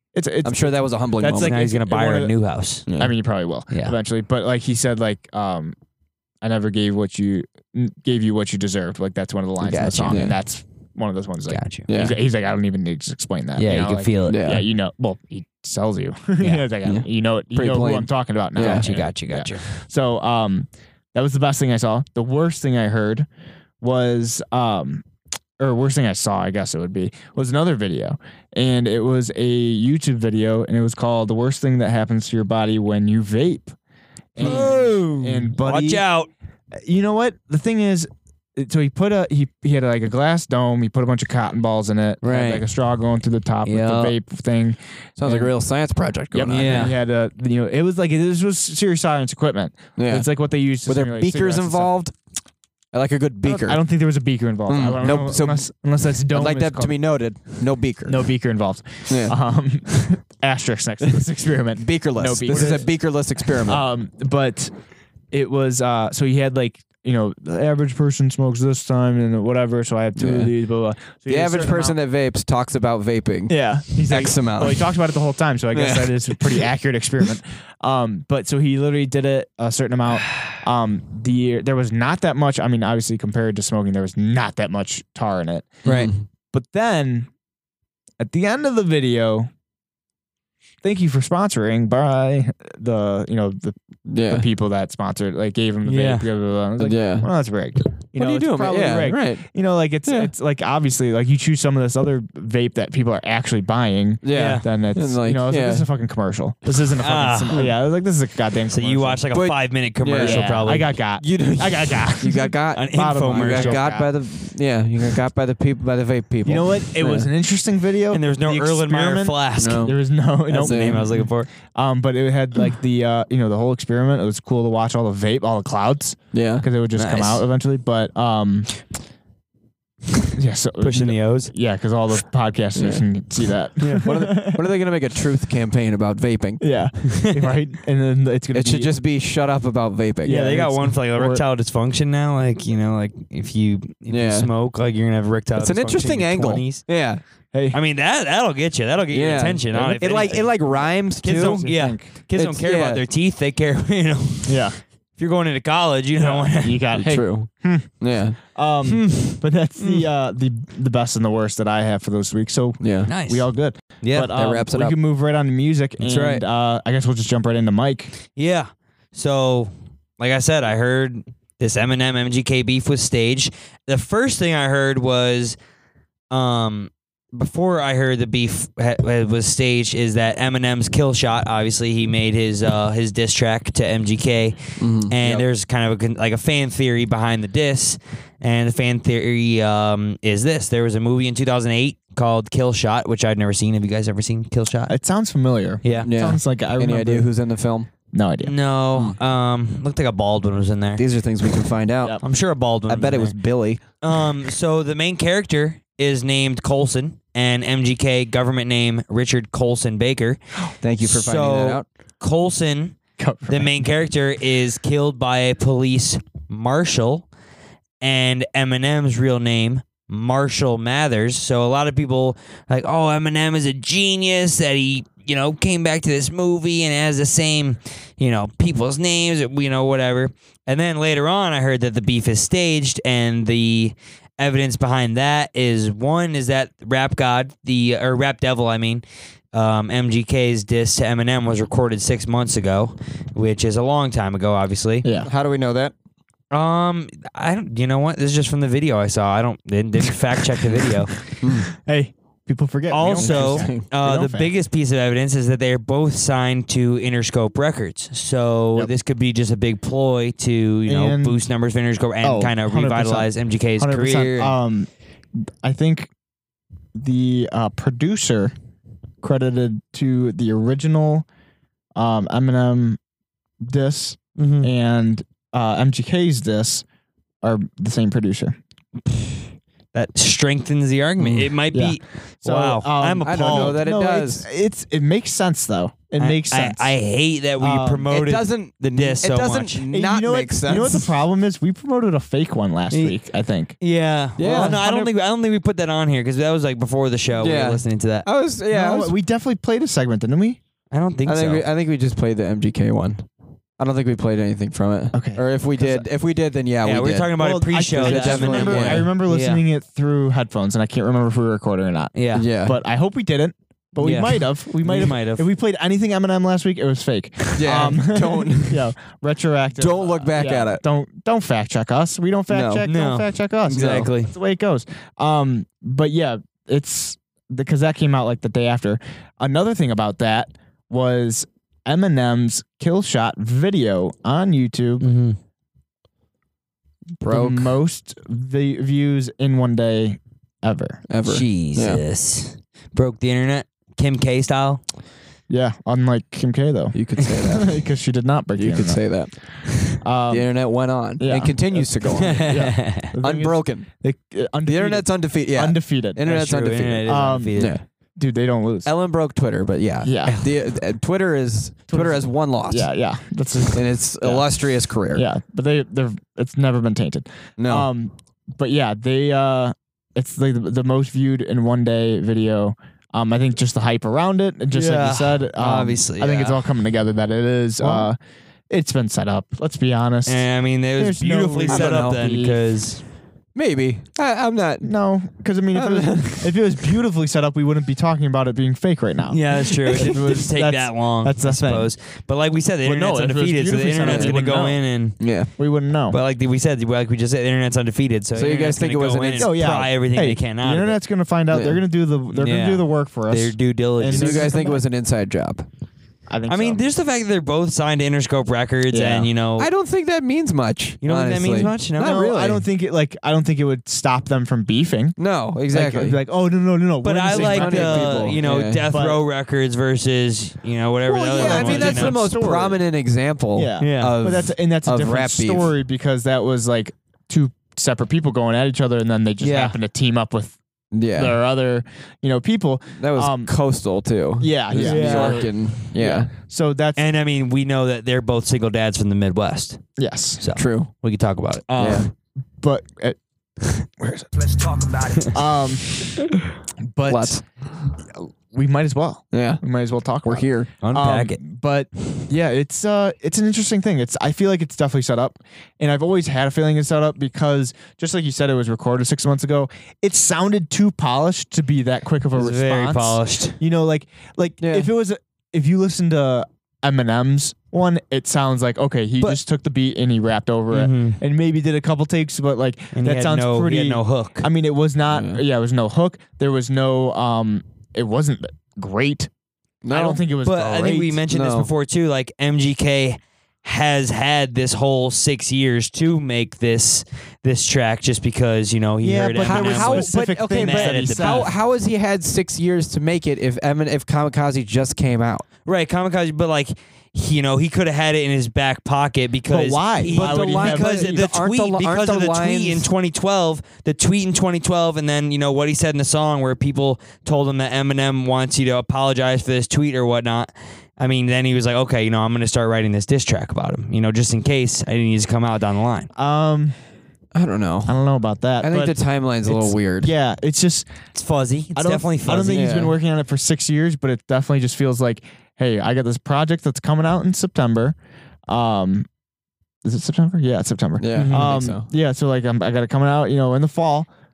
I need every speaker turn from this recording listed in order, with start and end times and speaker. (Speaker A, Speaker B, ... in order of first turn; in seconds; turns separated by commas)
Speaker A: 0.1-2.3, Speaker B: 0.4-1.6, Speaker C: 1.4-2.9, Speaker B: 2.9-3.1, Speaker A: 2.9-5.7, Speaker C: 3.7-3.9, Speaker A: 6.4-23.3, Speaker C: 9.7-10.2, Speaker B: 10.0-10.3, Speaker C: 11.5-11.9, Speaker B: 11.9-12.2, Speaker C: 13.6-14.4, Speaker B: 14.3-14.7, Speaker C: 16.4-16.6, Speaker B: 16.8-18.9, Speaker C: 18.6-19.6, Speaker A: 23.8-25.0, Speaker A: 25.6-33.7, Speaker A: 34.3-36.0, Speaker B: 34.4-35.0, Speaker C: 34.4-36.3, Speaker A: 36.7-45.5, Speaker B: 42.2-42.6, Speaker C: 43.7-44.1, Speaker B: 45.2-46.9, Speaker A: 46.3-51.9, Speaker C: 46.5-47.0, Speaker B: 50.0-50.3, Speaker B: 50.8-52.1, Speaker B: 52.9-53.8, Speaker A: 53.4-57.0, Speaker B: 54.7-55.7, Speaker B: 56.3-58.2, Speaker A: 58.0-62.9, Speaker B: 59.1-59.4, Speaker B: 61.8-63.9, Speaker A: 63.6-64.7, Speaker A: 65.3-72.0, Speaker B: 70.2-70.5, Speaker B: 71.3-74.9, Speaker A: 73.5-85.8, Speaker B: 75.7-76.7, Speaker B: 85.8-86.2, Speaker C: 85.8-86.1, Speaker A: 86.5-87.3, Speaker A: 88.2-89.5, Speaker A: 90.8-109.2, Speaker B: 94.1-94.5, Speaker C: 95.8-96.3, Speaker B: 96.8-97.3, Speaker B: 98.1-99.5, Speaker B: 100.0-100.3, Speaker B: 104.2-105.9, Speaker C: 104.3-104.6, Speaker C: 107.0-107.7, Speaker C: 108.7-110.9, Speaker B: 109.3-110.5, Speaker A: 110.2-114.1, Speaker B: 111.2-117.3, Speaker C: 112.7-113.9, Speaker A: 116.4-128.7, Speaker C: 118.1-119.9, Speaker B: 119.6-120.0, Speaker C: 120.5-121.5, Speaker B: 120.6-121.2, Speaker B: 126.3-126.6, Speaker C: 127.0-127.4, Speaker A: 130.3-134.6, Speaker C: 130.8-131.5, Speaker B: 132.8-133.0, Speaker C: 133.8-134.1, Speaker B: 134.0-136.7, Speaker A: 136.6-138.9, Speaker B: 138.5-140.4, Speaker A: 140.2-141.4, Speaker C: 140.2-146.9, Speaker B: 144.1-144.5, Speaker B: 145.6-147.2, Speaker A: 147.5-147.8, Speaker C: 147.7-150.6, Speaker B: 149.1-151.7, Speaker C: 151.2-154.6, Speaker A: 151.4-152.1, Speaker B: 152.3-153.0, Speaker A: 154.4-154.8, Speaker C: 155.2-156.8, Speaker A: 156.2-168.1, Speaker B: 156.9-158.4, Speaker C: 158.9-159.4, Speaker B: 162.8-163.1, Speaker C: 163.1-163.5, Speaker C: 164.0-164.3, Speaker B: 164.3-165.0, Speaker B: 166.0-166.4, Speaker C: 168.3-175.6, Speaker C: 176.3-194.9, Speaker B: 184.8-185.4, Speaker A: 194.9-197.3, Speaker C: 195.8-196.1, Speaker B: 196.0-197.9, Speaker A: 198.1-198.5, Speaker C: 198.4-201.0, Speaker B: 201.0-202.2, Speaker C: 202.2-203.3, Speaker B: 202.9-203.8, Speaker C: 204.0-210.4, Speaker B: 210.8-211.8, Speaker C: 211.0-217.3, Speaker A: 213.2-213.8, Speaker C: 218.0-245.1, Speaker A: 245.0-245.3, Speaker B: 245.2-245.9, Speaker C: 246.5-251.1, Speaker B: 251.4-251.7, Speaker A: 251.5-254.5, Speaker C: 252.9-264.5, Speaker B: 253.2-253.8, Speaker A: 260.9-261.4, Speaker A: 262.2-264.9, Speaker A: 265.6-266.1, Speaker A: 266.9-268.5, Speaker A: 269.2-271.2, Speaker A: 271.9-273.0, Speaker A: 273.6-276.8, Speaker C: 274.4-274.7, Speaker A: 277.4-278.6, Speaker C: 279.1-279.4, Speaker C: 279.9-283.8, Speaker B: 281.2-281.5, Speaker A: 281.7-286.9, Speaker B: 283.2-284.5, Speaker C: 286.2-289.8, Speaker A: 287.6-288.1, Speaker B: 288.1-291.1, Speaker A: 289.9-293.8, Speaker C: 292.9-293.2, Speaker C: 293.8-298.2, Speaker B: 294.4-294.8, Speaker A: 294.4-295.1, Speaker B: 297.4-299.1, Speaker A: 298.7-300.6, Speaker C: 300.9-301.6, Speaker B: 301.2-303.2, Speaker B: 303.8-307.4, Speaker A: 305.1-306.1, Speaker C: 306.8-309.6, Speaker A: 307.4-335.1, Speaker B: 307.9-309.1, Speaker C: 312.1-312.4, Speaker B: 312.3-312.8, Speaker C: 314.0-315.4, Speaker B: 317.5-318.9, Speaker B: 319.8-320.8, Speaker B: 322.5-322.9, Speaker C: 322.8-324.3, Speaker B: 323.7-324.1, Speaker C: 335.0-335.4, Speaker B: 337.2-337.7, Speaker A: 337.3-341.0, Speaker B: 341.1-342.0, Speaker C: 341.2-344.8, Speaker A: 345.5-349.1, Speaker B: 346.9-347.8, Speaker B: 348.6-349.4, Speaker A: 350.0-350.6, Speaker B: 350.3-352.5, Speaker A: 351.2-356.2, Speaker C: 352.1-353.1, Speaker B: 353.2-353.9, Speaker B: 354.6-357.8, Speaker C: 356.2-357.8, Speaker A: 357.1-357.6, Speaker A: 358.1-358.9, Speaker B: 358.9-362.9, Speaker A: 360.0-360.4, Speaker A: 361.9-364.5, Speaker B: 363.7-365.2, Speaker A: 365.1-378.2, Speaker B: 367.6-367.9, Speaker C: 374.7-376.6, Speaker B: 377.8-378.1, Speaker A: 378.7-382.6, Speaker C: 380.2-383.0, Speaker B: 381.7-382.2, Speaker B: 383.5-384.9, Speaker A: 384.8-391.9, Speaker B: 385.7-386.6, Speaker C: 389.3-395.2, Speaker A: 392.8-394.8, Speaker B: 394.0-394.4, Speaker B: 395.2-395.5, Speaker A: 395.6-396.2, Speaker C: 396.1-401.0, Speaker B: 398.3-399.5, Speaker A: 399.4-404.8, Speaker B: 401.5-401.8, Speaker C: 402.3-404.5, Speaker B: 404.1-405.6, Speaker A: 406.3-406.8, Speaker C: 406.5-409.7, Speaker A: 408.9-409.3, Speaker B: 409.6-412.6, Speaker C: 411.0-412.3, Speaker A: 412.0-415.2, Speaker B: 415.2-416.2, Speaker A: 415.7-419.2, Speaker C: 417.0-422.2, Speaker B: 417.3-418.9, Speaker A: 421.1-422.8, Speaker B: 421.3-425.7, Speaker A: 423.5-430.6, Speaker C: 423.8-424.1, Speaker C: 429.4-429.8, Speaker B: 430.9-431.4, Speaker A: 431.1-433.5, Speaker B: 433.0-436.3, Speaker A: 434.4-437.0, Speaker C: 434.8-435.5, Speaker C: 436.9-439.8, Speaker A: 440.0-440.4, Speaker C: 440.4-441.7, Speaker B: 440.6-440.9, Speaker A: 441.7-443.2, Speaker B: 441.8-442.1, Speaker A: 443.8-444.6, Speaker A: 445.2-446.3, Speaker A: 446.8-447.4, Speaker B: 447.1-447.4, Speaker A: 448.1-479.3, Speaker B: 449.3-449.6, Speaker B: 450.2-450.7, Speaker C: 450.8-451.4, Speaker C: 462.3-463.6, Speaker B: 464.6-464.9, Speaker C: 470.7-471.2, Speaker C: 472.9-474.5, Speaker B: 475.1-475.4, Speaker B: 479.8-480.2, Speaker A: 479.9-481.2, Speaker C: 480.4-491.5, Speaker B: 481.3-481.7, Speaker A: 489.0-491.5, Speaker B: 489.4-495.4, Speaker C: 495.6-516.1, Speaker A: 499.5-501.3, Speaker B: 500.1-502.9, Speaker A: 516.1-516.8, Speaker B: 517.3-518.0, Speaker A: 517.9-520.9, Speaker B: 518.6-520.1, Speaker C: 521.1-522.7, Speaker A: 521.7-528.0, Speaker B: 522.5-522.9, Speaker A: 528.5-529.1, Speaker A: 529.8-534.1, Speaker B: 531.0-531.9, Speaker C: 531.1-531.5